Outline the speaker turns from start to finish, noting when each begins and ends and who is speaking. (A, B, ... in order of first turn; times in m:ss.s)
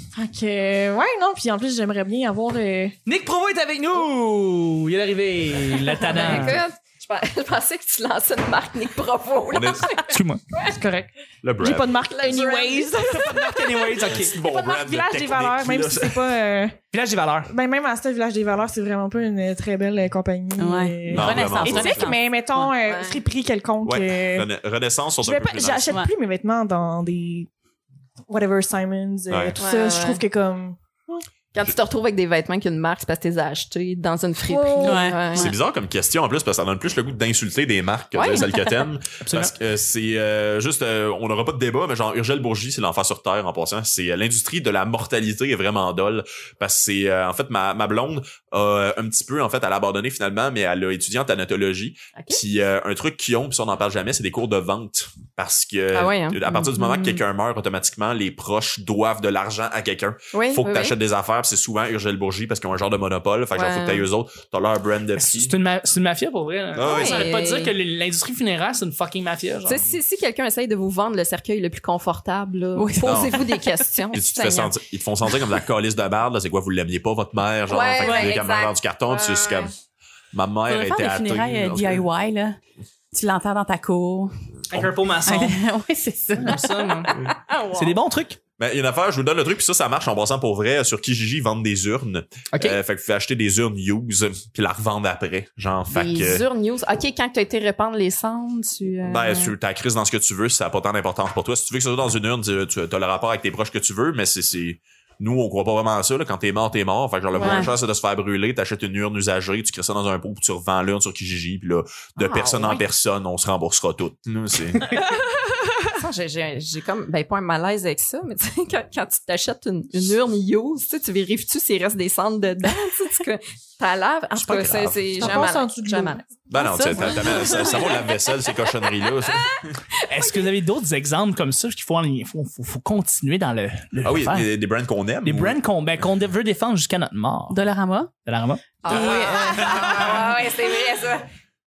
0:00.1-0:03.0 A
0:03.0-0:06.6 B
0:06.0-0:10.7 C
0:06.2-0:06.5 D
0:09.5-0:09.9 D
0:10.1-0:10.4 B
0:10.7-0:16.8 A
0:11.4-0:12.1 D
0:12.2-0:13.0 C
0:13.0-0:14.3 B
0:14.0-0:16.4 D
0:16.9-0:17.5 B
0:17.5-0:24.5 A
0:20.6-0:22.7 E
0:21.1-0:22.2 D
0:22.8-0:23.2 C
0:23.8-0:25.9 D
0:25.2-0:27.5 A
0:28.3-0:30.8 A
0:29.3-0:29.6 D
0:29.6-0:30.2 C
0:31.5-0:35.5 C
0:34.4-0:35.2 A
0:34.8-0:35.5 E
0:35.3-1:05.5 D
0:38.2-0:38.8 E
0:39.2-0:39.5 B
0:52.1-0:52.4 C
0:55.9-0:57.2 C
1:00.3-1:01.0 C
1:03.5-1:04.0 C
1:05.2-1:09.8 B
1:06.7-1:07.3 D
1:06.8-1:07.7 C
1:09.6-1:14.7 C
1:12.8-1:13.6 E
1:13.0-1:13.4 D
1:14.1-1:19.7 D
1:17.7-1:19.7 C
1:18.0-1:18.3 E
1:20.3-1:22.0 D
1:20.7-1:22.6 E
1:23.1-1:24.3 E
1:24.7-1:25.6 B
1:25.2-1:26.7 E
1:26.4-1:27.1 B
1:27.2-1:28.0 C
1:27.7-1:28.4 B
1:28.6-1:36.4 D
1:32.5-1:32.8 B
1:35.9-1:39.5 C
1:39.0-1:55.0 D
1:47.3-1:47.7 C
1:47.4-1:47.7 E
1:52.2-1:52.8 C
1:55.9-2:06.2 C
2:04.4-2:05.4 D
2:05.2-2:06.4 A
2:06.5-2:09.7 D
2:06.5-2:07.8 E
2:07.1-2:08.0 C
2:10.1-2:14.5 B
2:14.0-2:15.6 D
2:15.2-2:17.6 B
2:17.5-2:18.1 E
2:18.2-2:18.7 B
2:18.8-2:21.3 C
2:18.8-2:20.5 E